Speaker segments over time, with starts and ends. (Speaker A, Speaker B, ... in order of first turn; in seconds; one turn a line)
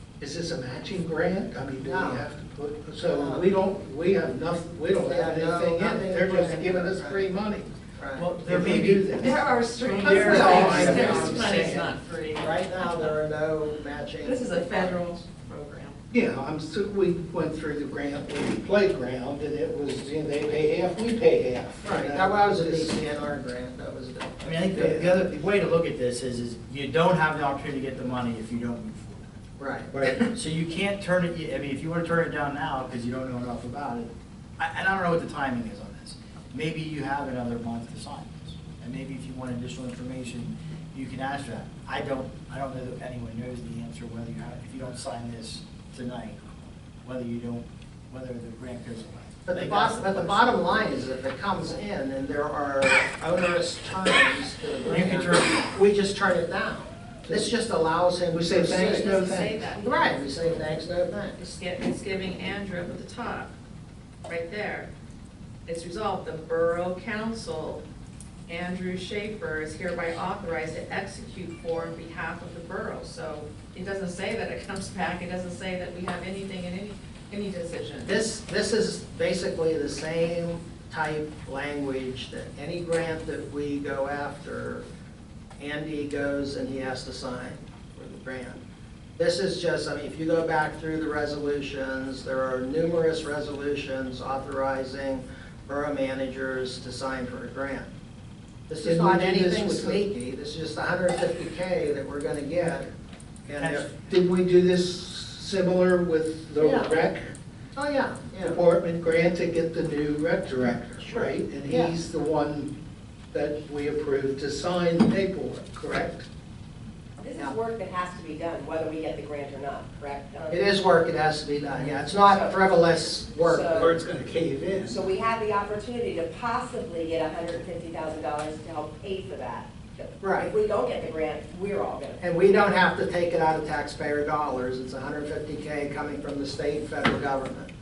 Speaker A: 0.2-7.7
Speaker B: 1.8-2.2
Speaker B: 3.0-3.5
Speaker B: 5.0-7.4
Speaker B: 8.0-8.3
Speaker C: 8.2-10.8
Speaker A: 8.4-9.4
Speaker D: 9.2-13.1
Speaker A: 9.9-11.8
Speaker B: 10.1-15.1
Speaker D: 14.2-16.0
Speaker A: 16.1-22.9
Speaker B: 21.8-25.2
Speaker C: 24.4-29.4
Speaker B: 29.6-30.0
Speaker A: 29.9-30.3
Speaker C: 30.3-50.7
Speaker B: 49.5-61.4
Speaker C: 54.8-55.8
Speaker A: 58.3-59.5
Speaker D: 59.0-60.6
Speaker D: 61.4-63.5
Speaker D: 64.3-64.9
Speaker D: 65.7-67.8
Speaker D: 68.5-78.1
Speaker B: 78.0-84.9
Speaker B: 85.6-88.6
Speaker B: 89.2-97.9
Speaker B: 98.7-102.9
Speaker A: 98.8-100.0
Speaker B: 103.5-103.9
Speaker C: 103.6-103.9
Speaker A: 103.9-107.3
Speaker B: 106.6-107.0
Speaker B: 107.8-108.6
Speaker A: 108.4-112.7
Speaker B: 111.0-111.9
Speaker A: 113.3-116.2
Speaker E: 117.2-120.7
Speaker B: 120.5-123.9
Speaker E: 121.9-123.9
Speaker A: 123.7-125.1
Speaker E: 124.8-132.2
Speaker B: 130.2-130.5
Speaker B: 132.2-137.7